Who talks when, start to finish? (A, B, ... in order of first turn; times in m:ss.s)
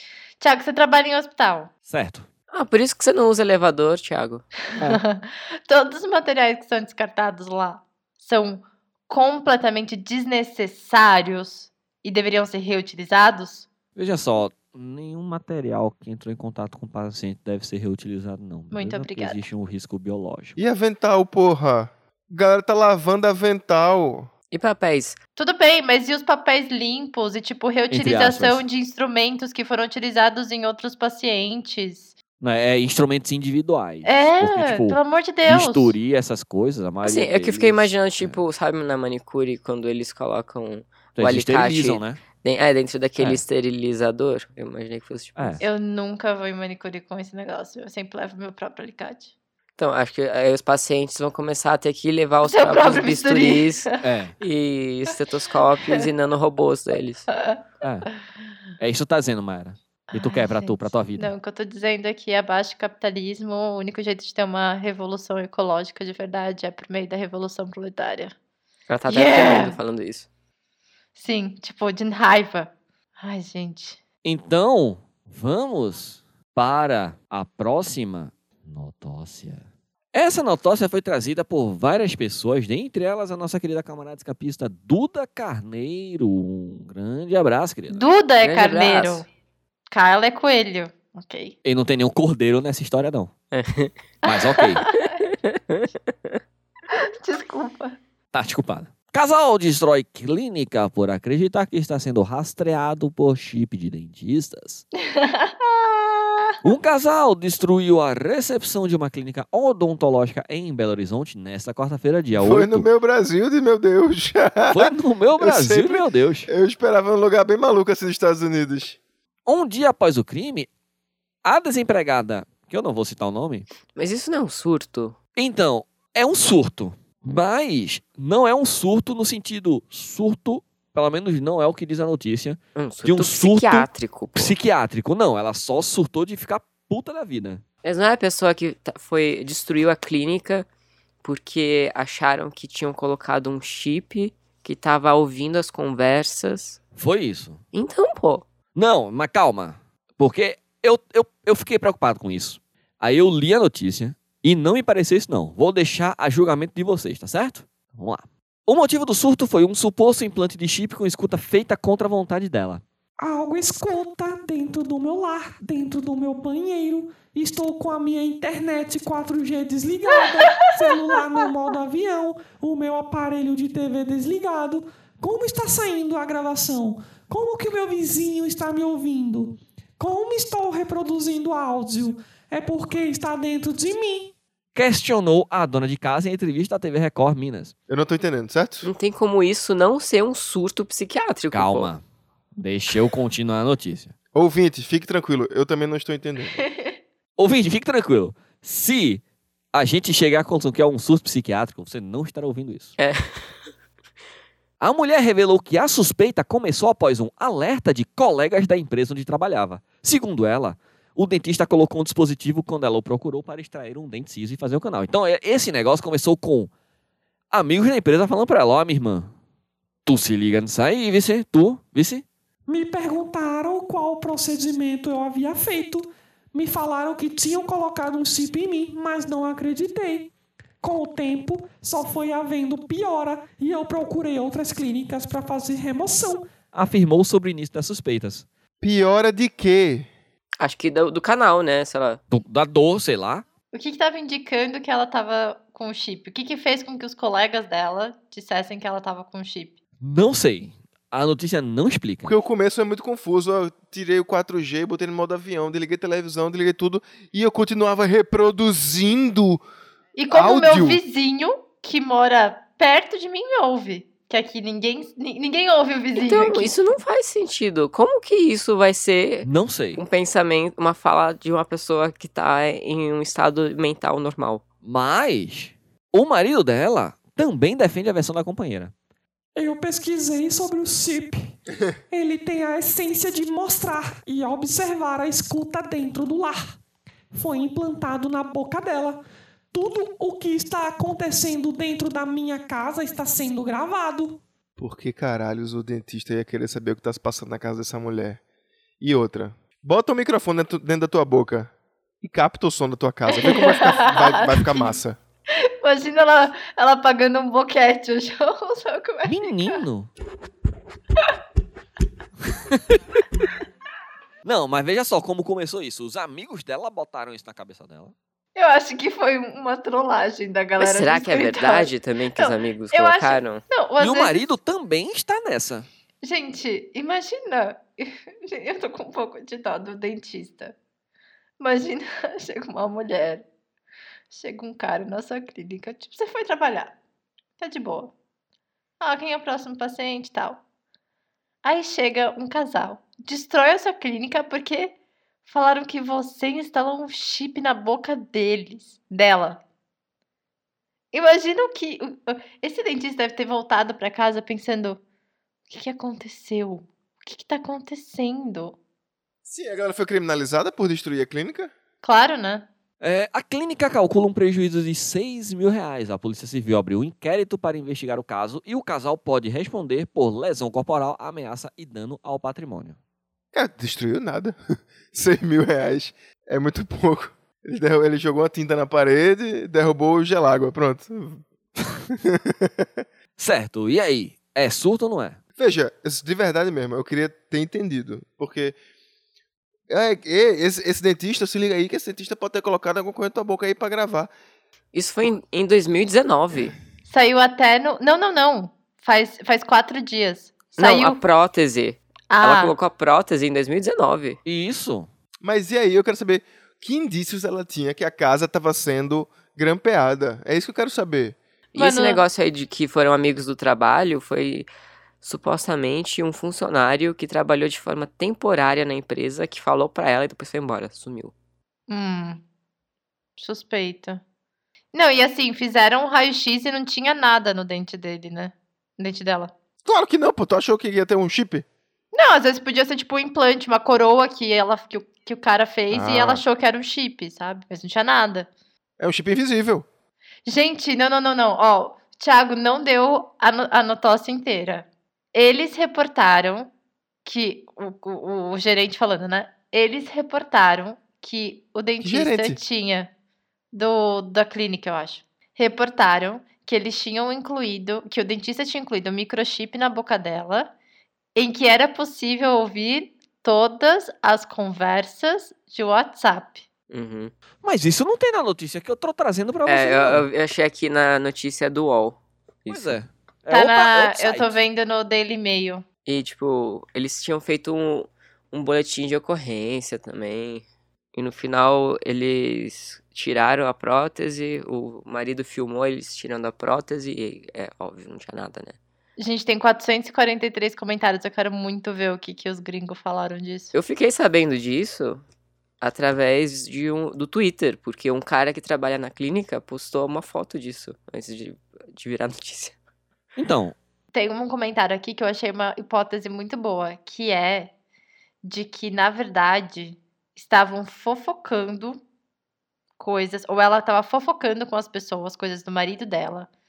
0:00.4-0:01.7 A
0:01.9-0:02.2 B
0:02.5-0:04.4 C
0:04.8-0:13.7 A
0:14.0-0:20.6 B
0:18.7-0:19.4 A
0:20.6-0:24.3 D
0:24.5-0:25.2 C
0:25.4-0:32.1 A
0:27.9-0:28.6 B
0:32.4-0:38.4 B
0:34.0-0:36.0 A
0:37.0-0:45.6 C
0:41.2-0:42.2 B
0:45.4-0:45.6 B
0:45.6-0:49.3 A
0:49.8-0:57.3 C
0:52.4-0:53.9 A
0:54.0-0:54.3 B
0:57.3-0:57.6 A
0:57.8-0:58.1 B
0:58.8-1:01.3 B
1:00.1-1:08.3 A
1:08.9-1:10.3 C
1:09.1-1:09.8 A
1:11.2-1:14.0 A
1:14.2-1:28.0 B
1:27.9-1:29.3 A
1:28.4-1:29.2 C
1:29.9-1:31.5 A
1:31.6-1:33.3 B
1:33.5-1:33.9 C
1:34.2-1:34.9 B
1:34.3-1:35.2 A
1:35.3-1:36.3 C
1:36.9-1:38.0 A
1:38.3-1:44.8 B
1:45.0-1:46.6 A
1:46.6-1:52.8 B
1:52.3-1:59.0 D
1:54.7-1:56.5 B
1:59.4-2:00.7 B
2:01.4-2:03.6 B
2:03.9-2:05.2 C
2:05.4-2:17.6 B
2:12.8-2:14.5 C
2:17.8-2:20.7 C
2:21.2-2:26.8 C
2:27.0-2:27.6 B
2:27.7-2:28.4 C
2:28.7-2:42.8 B
2:43.2-3:04.3 E
3:04.7-3:07.7 B
3:07.9-3:08.9 D
3:08.8-3:11.9 C
3:11.5-3:12.0 B
3:12.6-3:14.1 B
3:14.3-3:16.6 D
3:16.6-3:16.9 A
3:17.4-3:22.9 B
3:23.0-3:23.4 C
3:24.8-3:36.7 B
3:37.5-3:39.3 B
3:40.0-3:42.2 B
3:42.7-3:56.6 E
3:56.7-3:58.4 B
3:58.8-4:00.1 D
4:00.6-4:02.2 C
4:02.3-4:03.4 B
4:03.7-4:09.8 A
4:10.0-4:12.3 B
4:12.2-4:19.6 D
4:20.2-4:26.7 A
4:20.3-4:21.0 D
4:26.2-4:34.6 C
4:29.4-4:30.0 B
4:34.8-4:38.9 B
4:39.5-4:41.6 E
4:42.1-4:46.7 E
4:47.3-4:54.4 E
4:54.8-4:58.4 D
4:59.0-5:05.2 D
5:03.3-5:05.0 A
5:05.6-5:09.8 A
5:09.2-5:10.1 B
5:12.7-5:13.0 B
5:14.4-5:18.1 B
5:18.5-5:24.5 A
5:20.8-5:23.6 C
5:24.0-5:25.9 B
5:26.2-5:30.7 A
5:31.6-5:33.4 A
5:34.3-5:36.9 A
5:37.6-5:38.1 A
5:39.0-5:40.6 A
5:41.6-5:49.6 A
5:51.1-5:55.0 A
5:55.7-5:58.8 A
5:59.4-6:01.7 D
6:02.0-6:02.7 A
6:03.0-6:13.0 B
6:13.5-6:14.6 D
6:15.1-6:23.0 D
6:23.4-6:25.4 B
6:25.6-6:28.8 D
6:29.9-6:34.3 D
6:34.9-6:36.8 C
6:37.1-6:41.2 A
6:40.8-6:44.4 C
6:42.3-6:42.7 A
6:44.4-6:45.1 B
6:45.4-6:51.4 D
6:51.7-6:54.7 C
6:51.8-6:52.2 A
6:55.2-7:01.3 C
7:01.9-7:02.4 A
7:03.4-7:04.2 A
7:04.9-7:09.5 A
7:09.8-7:11.6 D
7:12.1-7:18.5 A
7:15.9-7:16.4 D
7:19.0-7:19.9 D
7:20.4-7:26.7 A
7:27.2-7:33.1 A
7:32.0-7:32.6 D
7:33.7-7:40.7 A
7:41.3-7:46.6 A
7:46.9-7:47.3 C
7:47.6-7:50.2 B
7:49.7-7:53.0 C
7:52.7-7:54.6 B
7:53.5-7:55.8 A
7:56.0-8:08.8 C
8:09.2-8:13.7 A
8:13.7-8:15.2 C
8:15.8-8:22.7 C
8:23.4-8:23.8 B
8:24.1-8:27.7 A
8:28.4-8:32.0 A
8:33.0-8:36.5 A